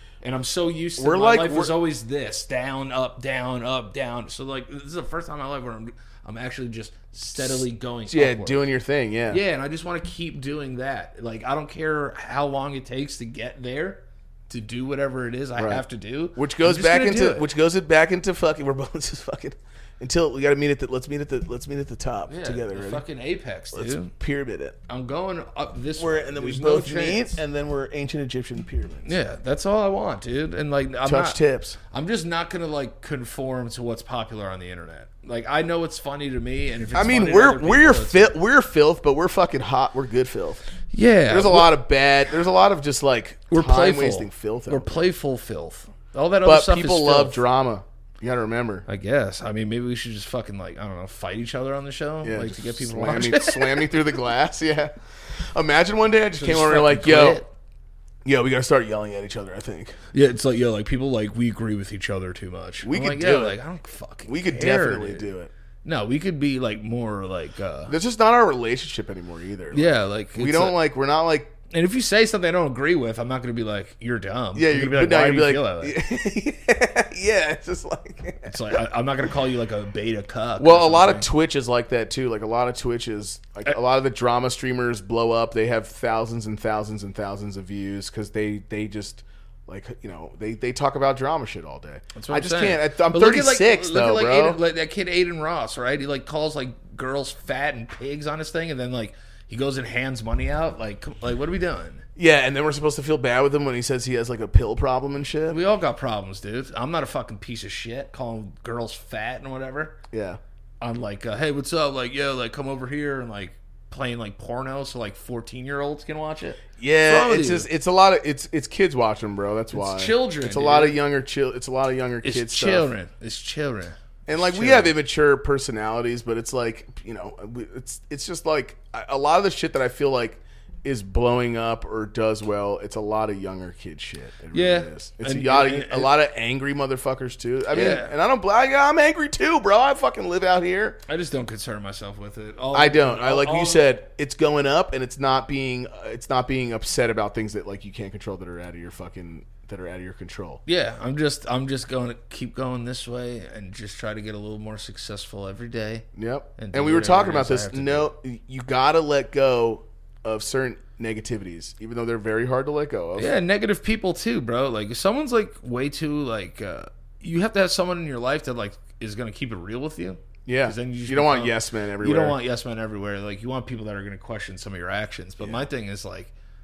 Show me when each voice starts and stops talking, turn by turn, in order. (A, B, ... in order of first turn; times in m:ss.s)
0:00.2-0:08.6 A
0:01.0-0:01.7 B
0:07.4-0:09.4 B
0:09.3-0:17.5 A
0:15.6-0:15.8 B
0:16.4-0:23.0 B
0:22.3-0:24.1 A
0:23.7-0:24.8 B
0:24.9-0:27.4 A
0:26.0-0:29.1 B
0:29.0-0:38.3 A
0:31.0-0:31.8 B
0:36.9-0:40.6 B
0:40.9-0:41.8 A
0:41.3-0:45.1 B
0:43.5-0:47.4 A
0:46.4-0:48.9 B
0:48.9-0:54.0 A
0:52.2-0:57.4 B
0:56.4-0:57.5 A
0:58.2-1:00.0 B
1:00.1-1:05.3 A
1:02.8-1:03.6 B
1:04.3-1:05.5 B
1:05.8-1:08.0 A
1:07.9-1:11.5 B
1:09.7-1:10.8 A
1:11.7-1:16.0 A
1:14.6-1:18.8 B
1:18.4-1:21.3 A
1:20.6-1:34.6 B
1:32.2-1:42.0 A
1:42.2-1:45.6 B
1:45.5-1:50.0 A
1:50.1-1:50.4 B
1:50.8-1:57.7 A
1:56.8-2:02.9 B
1:59.7-2:01.0 A
2:02.2-2:04.9 A
2:04.3-2:21.0 B
2:14.5-2:16.1 A
2:17.7-2:18.1 A
2:21.1-2:23.9 A
2:22.7-2:30.6 B
2:30.6-2:36.1 A
2:36.2-2:43.4 B
2:36.6-2:38.1 A
2:43.2-2:56.3 A
2:50.4-2:52.4 B
2:55.4-2:55.6 B